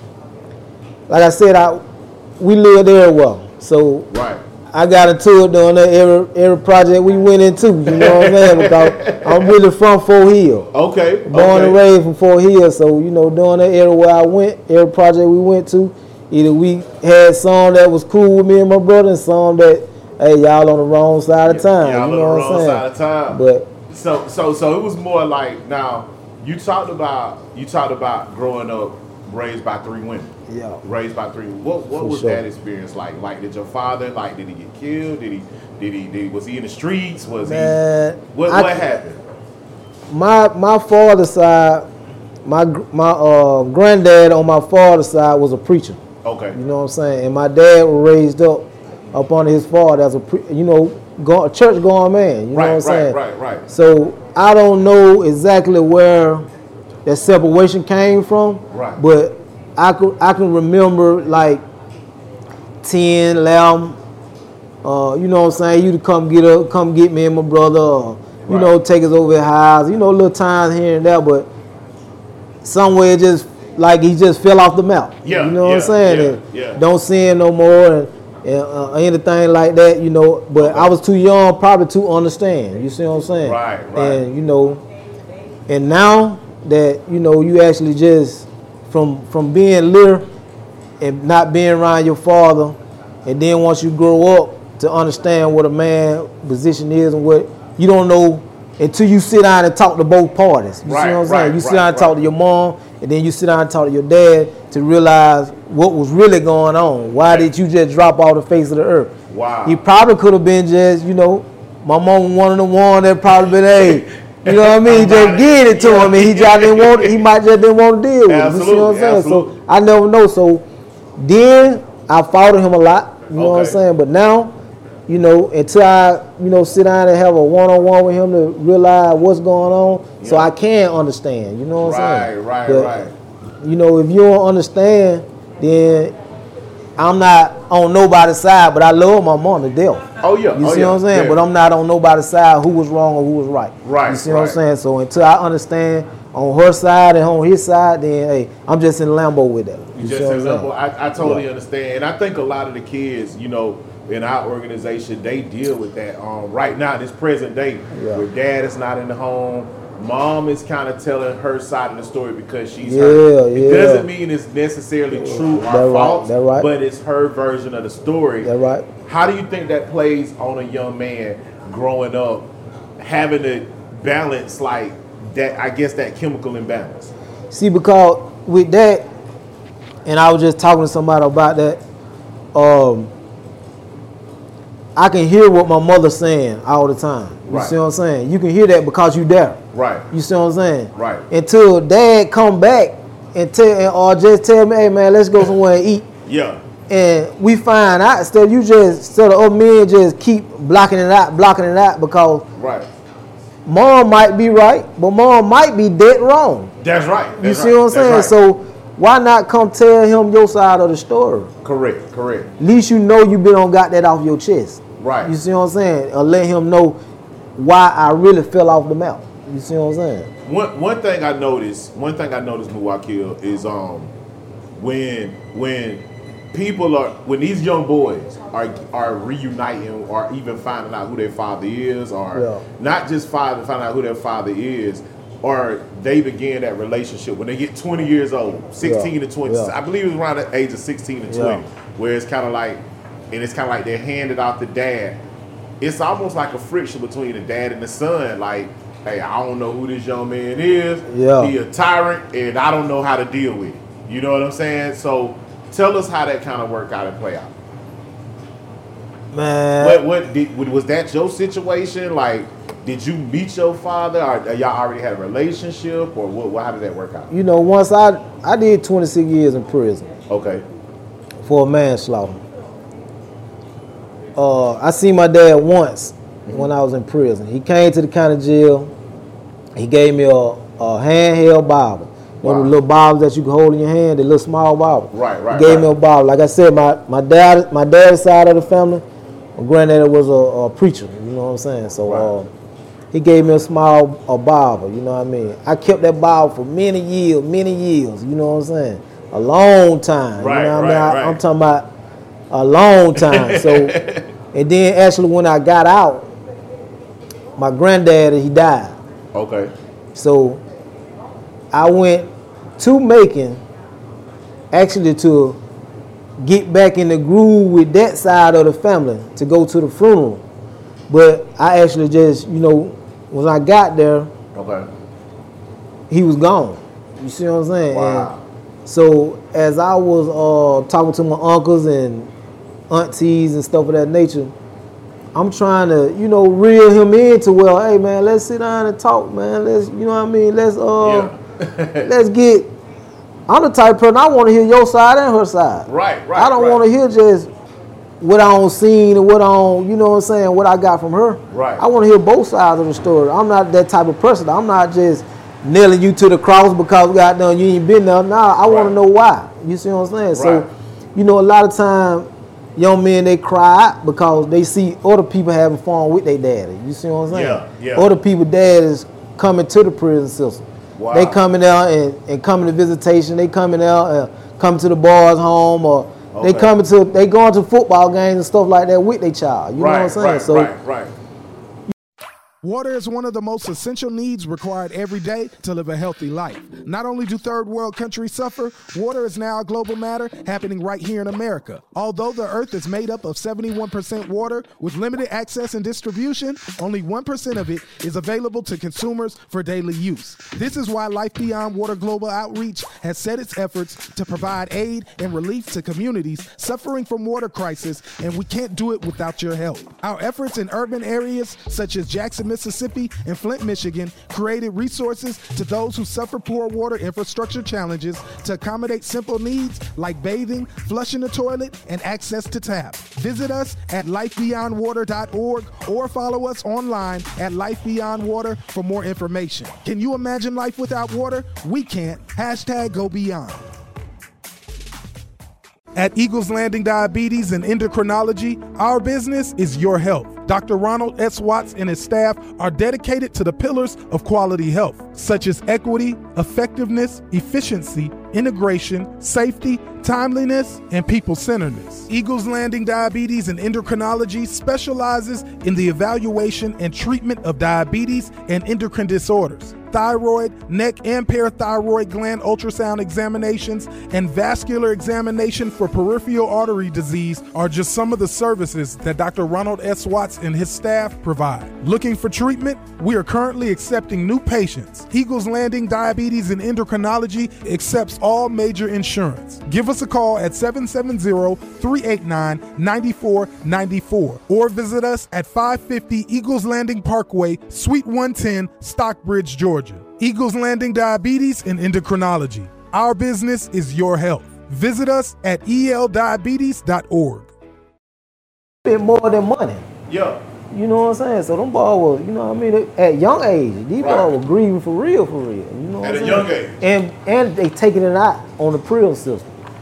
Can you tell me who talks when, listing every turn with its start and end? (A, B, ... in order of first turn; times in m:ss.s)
0:01.1-0:01.8 A
0:02.4-0:04.1 A
0:04.1-0:04.4 B
0:04.7-0:10.7 A
0:07.9-0:09.5 B
0:10.7-0:11.8 B
0:11.3-0:23.7 A
0:21.4-0:30.3 B
0:30.5-0:30.8 A
0:30.8-0:37.8 B
0:32.0-0:32.4 A
0:37.4-0:38.8 A
0:38.3-0:39.2 B
0:40.1-0:41.9 A
0:42.4-0:46.0 A
0:46.2-0:46.6 B
0:46.5-0:53.2 A
0:52.5-0:53.6 B
0:53.7-0:56.5 A
0:57.1-1:01.6 A
0:58.7-0:59.0 B
1:02.8-1:04.0 A
1:04.8-1:11.5 A
1:08.4-1:08.7 B
1:12.6-1:24.8 A
1:15.2-1:16.8 B
1:20.6-1:20.9 B
1:23.4-1:24.2 B
1:25.7-1:30.2 A
1:31.0-1:49.1 A
1:40.9-1:42.1 B
1:49.3-1:49.8 B
1:49.6-2:00.6 A
1:53.8-1:57.3 B
1:58.3-1:59.6 B
2:01.2-2:04.6 A
2:03.4-2:03.8 B
2:05.1-2:13.1 A
2:10.2-2:10.5 B
2:11.8-2:13.1 B
2:13.6-2:16.1 A
2:17.0-2:31.4 A
2:20.2-2:21.4 B
2:23.8-2:24.6 B
2:30.0-2:48.5 B
2:37.9-2:38.2 A
2:42.8-2:44.1 A
2:45.1-2:46.7 A
2:48.4-2:48.9 A
2:49.0-2:57.1 B
2:57.5-2:59.0 A
3:00.0-3:01.8 A
3:02.5-3:03.1 A
3:05.0-3:09.6 A
3:07.5-3:07.8 B
3:09.7-3:10.1 B
3:10.1-3:16.0 A
3:10.9-3:11.2 B
3:16.2-3:16.6 B
3:16.9-3:22.4 A
3:22.6-3:22.9 B
3:23.6-3:26.7 A
3:26.8-3:28.4 B
3:27.4-3:31.5 A
3:31.6-3:32.5 B
3:32.6-3:37.0 A
3:35.0-3:35.3 B
3:37.6-3:40.3 A
3:40.4-3:44.1 B
3:44.8-4:05.2 B
3:52.3-3:52.6 A
3:58.8-3:59.7 A
4:01.3-4:01.6 A
4:05.8-4:17.5 B
4:11.1-4:11.5 A
4:19.3-4:20.0 A
4:19.8-4:27.3 B
4:27.3-4:30.1 A
4:30.3-4:30.6 B
4:31.4-4:32.4 A
4:34.4-4:38.9 A
4:39.8-4:49.0 A
4:42.4-4:42.7 B
4:45.1-4:45.9 B
4:49.6-4:52.5 A
4:53.1-5:01.9 A
5:00.4-5:01.4 B
5:02.5-5:04.0 A
5:03.2-5:04.2 B
5:04.5-5:06.3 A
5:07.6-5:09.0 A
5:09.3-5:09.7 B
5:10.1-5:10.6 A
5:11.7-5:13.6 A
5:14.7-5:15.6 A
5:16.4-5:20.4 A
5:21.1-5:24.3 A
5:24.5-5:24.9 B
5:26.1-5:28.3 A
5:27.9-5:28.4 B
5:28.9-5:32.3 A
5:32.9-5:34.5 A
5:35.3-5:41.3 A
5:41.0-5:42.1 B
5:42.0-5:42.7 A
5:43.5-5:47.5 A
5:45.9-5:46.8 B
5:48.2-6:20.7 A
5:51.5-5:51.8 B
5:58.6-5:58.9 B
6:00.4-6:00.6 B
6:07.3-6:08.1 B
6:11.0-6:11.4 B
6:16.3-6:16.7 B
6:19.8-6:21.1 B
6:22.6-7:13.6 C
7:16.0-8:17.5 C
8:18.8-8:19.8 A
8:20.1-8:20.4 B
8:20.7-8:29.5 A
8:24.0-8:24.3 B
8:26.0-8:26.8 B